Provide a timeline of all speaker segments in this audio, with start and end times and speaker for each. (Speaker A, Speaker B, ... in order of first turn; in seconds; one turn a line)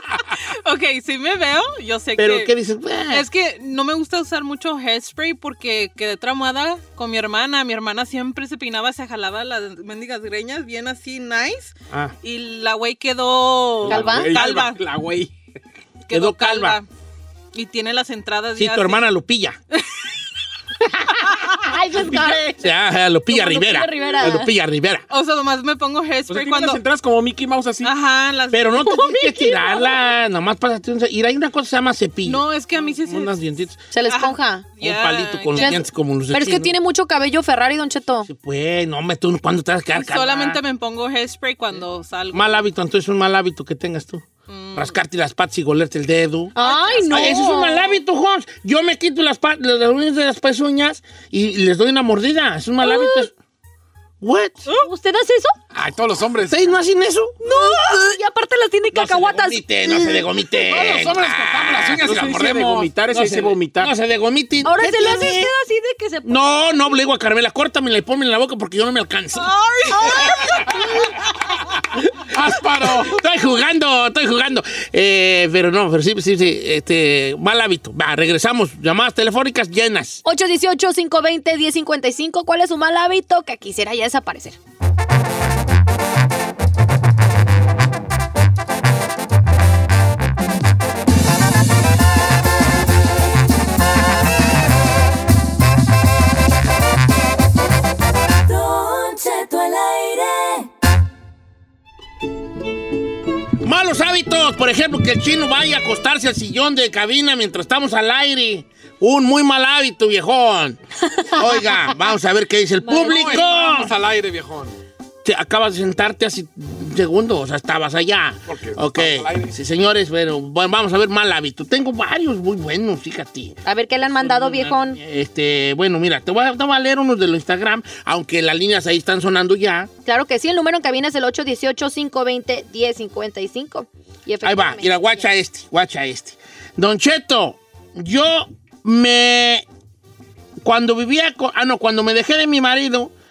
Speaker A: 0.3-2.5
Speaker B: 2.2-3.2
Speaker A: 3.1-14.8
Speaker C: 13.8-15.3
Speaker D: 13.9-14.3
Speaker A: 16.1-16.9
Speaker B: 16.1-16.8
Speaker A: 17.5-19.1
Speaker B: 18.6-19.6
Speaker A: 21.3-22.5
Speaker D: 21.7-22.5
Speaker B: 22.6-25.0
Speaker D: 23.3-24.5
Speaker A: 25.1-26.8
Speaker C: 26.3-27.9
Speaker A: 27.8-29.9
Speaker B: 28.5-33.8
Speaker A: 32.2-33.4
Speaker D: 33.9-34.7
Speaker A: 34.0-35.8
Speaker B: 34.8-36.7
Speaker D: 35.5-38.3
Speaker B: 38.2-40.6
Speaker A: 39.9-42.7
Speaker B: 42.3-46.6
Speaker A: 44.5-45.0
Speaker D: 46.5-48.0
Speaker A: 46.6-47.4
Speaker B: 47.1-53.3
Speaker D: 52.8-53.3
Speaker B: 54.2-54.6
Speaker D: 54.7-55.5
Speaker E: 55.7-56.7
Speaker B: 56.5-57.4
Speaker D: 57.4-60.2
Speaker B: 58.9-62.2
Speaker E: 60.6-62.9
Speaker C: 62.0-63.9
Speaker B: 63.1-65.5
Speaker D: 64.6-66.6
Speaker B: 66.2-70.8
Speaker A: 69.4-70.3
Speaker D: 69.9-70.4
Speaker E: 72.3-73.2
Speaker B: 72.8-80.2
Speaker D: 80.2-84.6
Speaker F: 98.5-100.7
Speaker B: 103.6-110.8
Speaker D: 111.2-111.6
Speaker B: 111.3-113.9
Speaker E: 112.9-114.8
Speaker D: 112.9-113.4
Speaker B: 115.2-123.6
Speaker E: 118.5-119.5
Speaker D: 123.6-125.0
Speaker B: 124.2-129.9
Speaker D: 130.1-135.3
Speaker B: 134.4-139.7
Speaker B: 140.6-143.1